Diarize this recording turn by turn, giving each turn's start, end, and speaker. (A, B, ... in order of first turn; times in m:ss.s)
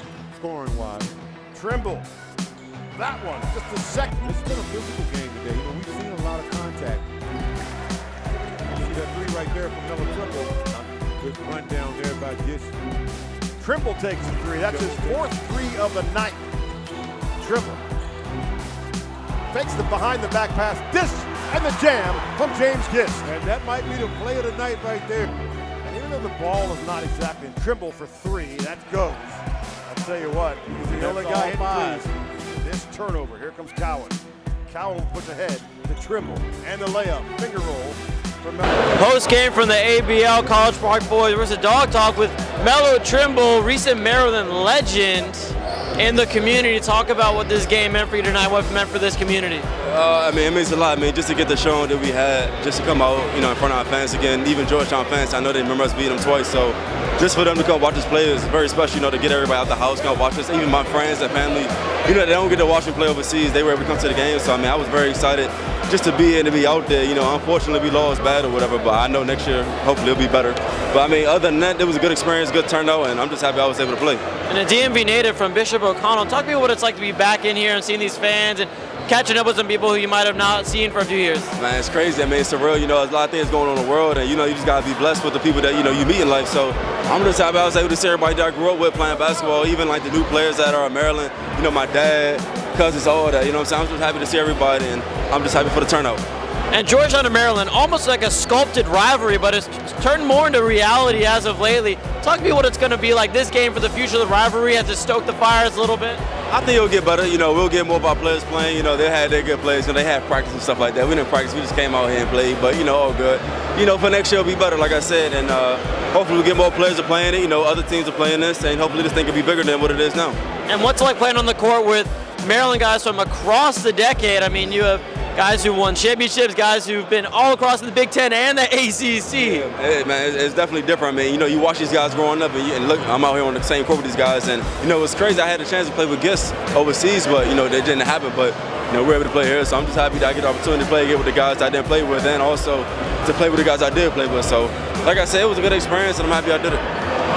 0:00.3-0:01.1 A
0:01.5-0:02.1 B
0:02.9-0:04.2 B
0:04.2-0:07.0 A
0:08.7-0:12.7 A
0:13.6-0:16.4 B
0:14.7-0:15.2 A
0:17.4-0:17.8 B
0:19.5-0:23.3 B
0:23.2-0:25.3 A
0:25.8-0:38.7 B
0:30.8-0:32.1 A
0:38.9-0:49.7 C
0:49.8-1:14.2 D
1:14.5-1:21.5 C
1:21.6-1:36.2 D
1:36.7-1:46.2 C
1:46.5-2:00.4 D
2:00.7-2:09.7 C
2:09.4-2:26.8 D